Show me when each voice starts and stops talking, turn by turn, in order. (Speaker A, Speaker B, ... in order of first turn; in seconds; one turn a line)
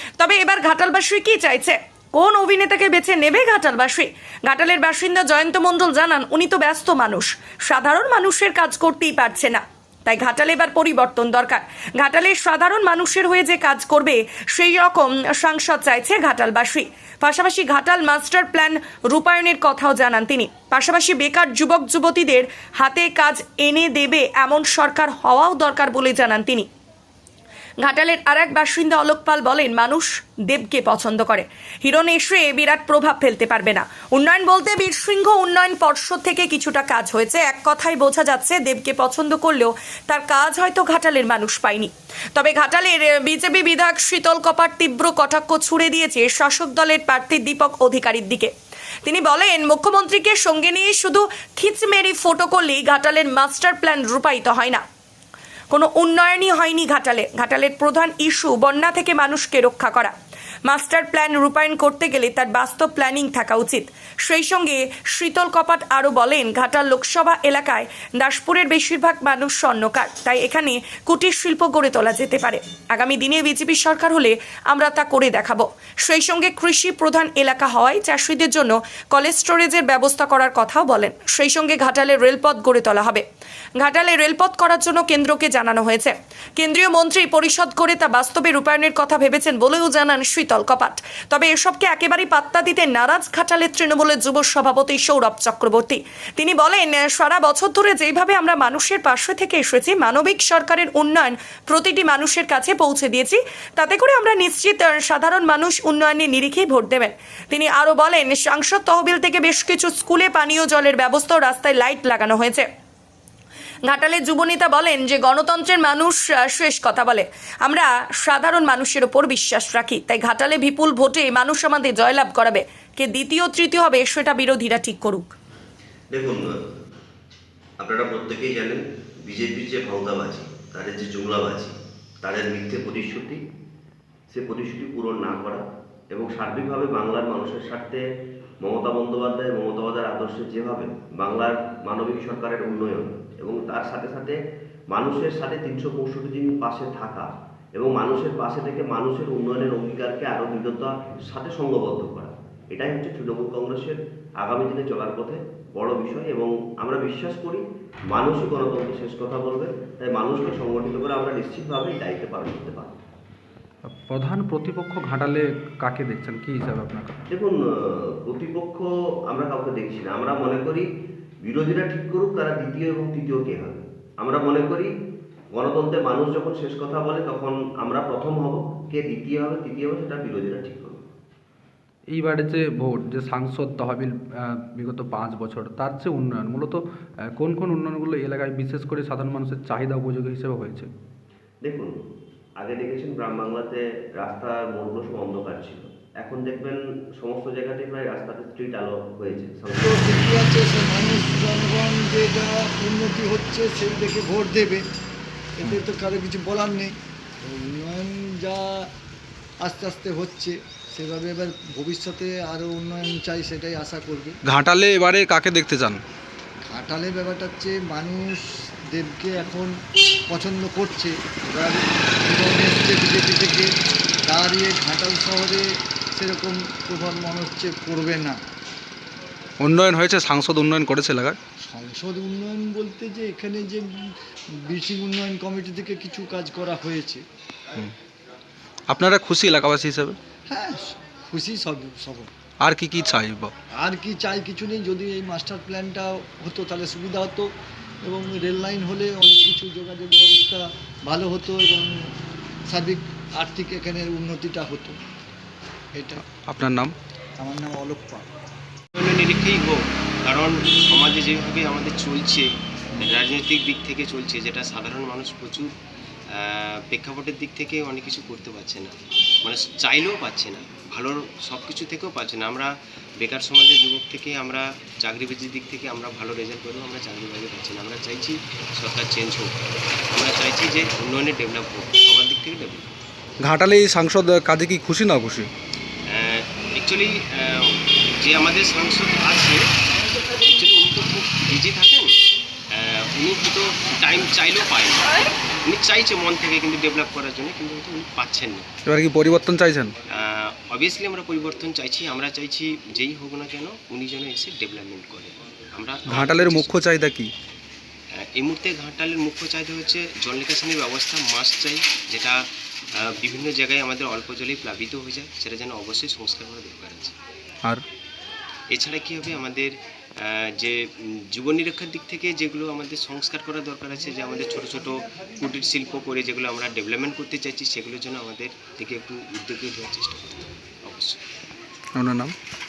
Speaker A: 0.2-26.7
Speaker A: 27.8-48.5
Speaker A: 49.0-54.8
Speaker A: 55.7-60.1
Speaker A: 60.6-83.2
Speaker A: 83.8-112.7
Speaker A: 113.8-125.3
Speaker B: 126.1-126.5
Speaker B: 127.8-133.4
Speaker B: 134.3-138.0
Speaker B: 138.6-144.4
Speaker B: 144.9-163.0
Speaker C: 163.9-167.2
Speaker B: 167.3-167.6
Speaker B: 168.2-170.9
Speaker B: 171.4-174.9
Speaker B: 175.5-181.0
Speaker C: 182.1-186.8
Speaker C: 187.4-190.9
Speaker B: 191.6-191.9
Speaker B: 192.6-199.9
Speaker D: 199.8-204.8
Speaker D: 205.6-206.9
Speaker D: 207.4-208.8
Speaker D: 209.6-214.4
Speaker C: 214.4-216.0
Speaker D: 216.7-219.7
Speaker D: 220.3-223.7
Speaker D: 224.3-228.4
Speaker C: 229.6-231.4
Speaker D: 231.7-234.1
Speaker D: 234.7-237.2
Speaker C: 238.9-240.2
Speaker D: 240.5-242.3
Speaker C: 242.6-243.5
Speaker D: 243.8-247.5
Speaker D: 248.0-251.9
Speaker D: 252.7-255.0
Speaker D: 255.9-256.2
Speaker C: 256.3-256.9
Speaker D: 257.4-258.2
Speaker E: 259.0-265.7
Speaker E: 266.3-279.6
Speaker E: 280.1-282.9
Speaker C: 283.4-285.5
Speaker E: 286.1-289.6
Speaker E: 290.4-292.1
Speaker E: 292.7-298.7
Speaker C: 298.9-299.9
Speaker E: 300.1-306.7
Speaker C: 306.1-307.3
Speaker E: 308.2-312.4
Speaker E: 313.1-317.1
Speaker E: 318.7-320.8
Speaker E: 321.3-331.2
Speaker C: 331.9-332.3